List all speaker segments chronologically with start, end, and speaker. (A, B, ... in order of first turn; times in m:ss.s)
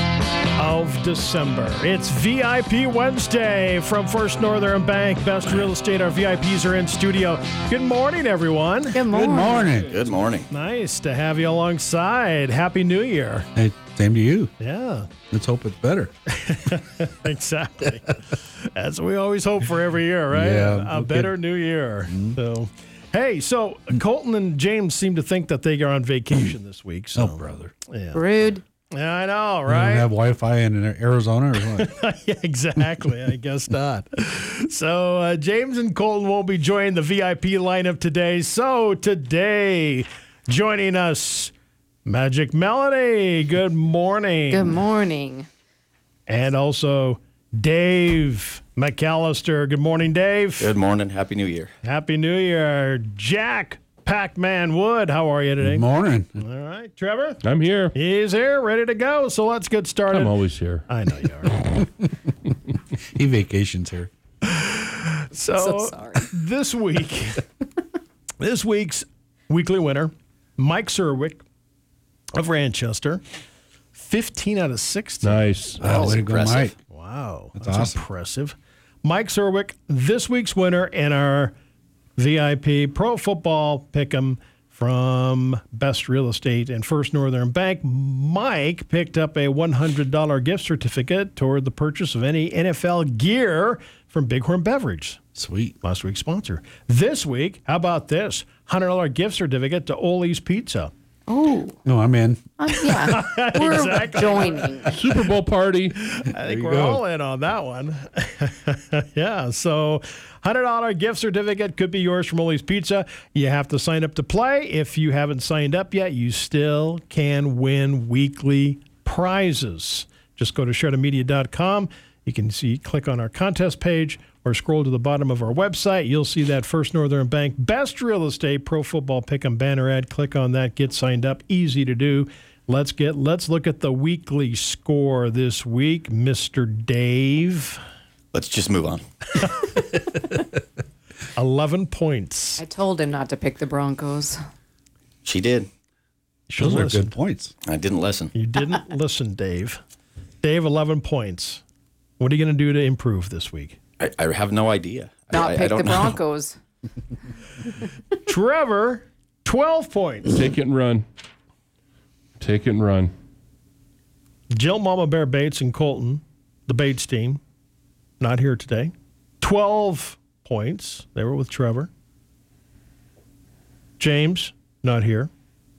0:00.6-0:09.0 A
0:08.9-0:09.7 B
0:09.1-0:10.0 C
0:09.8-0:10.5 D
0:10.5-0:13.5 A
0:13.6-0:14.5 C
0:14.6-0:15.1 A
0:15.3-0:16.1 C
0:16.3-0:28.2 A
0:20.3-0:21.4 C
0:22.1-0:22.4 C
0:27.2-0:27.7 C
0:28.1-0:28.6 B
0:28.9-0:30.1 A
0:29.7-0:31.9 C
0:31.6-0:41.5 A
0:42.0-0:44.8 A
0:44.5-0:45.5 B
0:46.3-0:50.7 A
0:50.6-0:51.7 D
0:51.8-0:55.9 A
0:55.6-0:56.4 C
0:56.4-0:57.4 A
0:57.4-0:58.0 E
0:57.9-1:01.7 A
1:00.1-1:00.8 E
1:02.9-1:04.1 C
1:04.4-1:07.4 A
1:05.6-1:06.3 B
1:08.4-1:11.4 A
1:12.3-1:13.2 A
1:14.0-1:15.4 A
1:15.2-1:16.0 E
1:15.8-1:16.7 C
1:15.8-1:16.7 D
1:16.9-1:21.5 A
1:17.6-1:18.0 C
1:22.2-1:35.2 A
1:35.4-1:35.8 C
1:35.8-1:40.9 A
1:41.3-1:41.8 B
1:41.9-1:42.4 C
1:42.6-1:45.0 B
1:43.0-1:45.2 A
1:44.9-1:46.0 E
1:46.0-2:17.8 A
1:46.4-1:47.0 C
2:18.3-2:19.0 D
2:19.6-2:20.4 A
2:21.4-2:22.6 A
2:22.6-2:24.4 B
2:25.2-2:25.7 D
2:26.5-2:27.2 A
2:26.6-2:27.5 C
2:27.7-2:28.3 D
2:28.3-2:29.8 A
2:30.4-2:31.6 A
2:32.2-2:33.8 A
2:34.0-2:36.2 D
2:35.3-2:36.6 B
2:37.6-2:37.9 B
2:38.2-2:40.3 A
2:40.3-2:41.0 E
2:42.4-2:43.1 E
2:44.5-2:47.4 A
2:48.2-2:51.9 A
2:54.0-2:55.3 A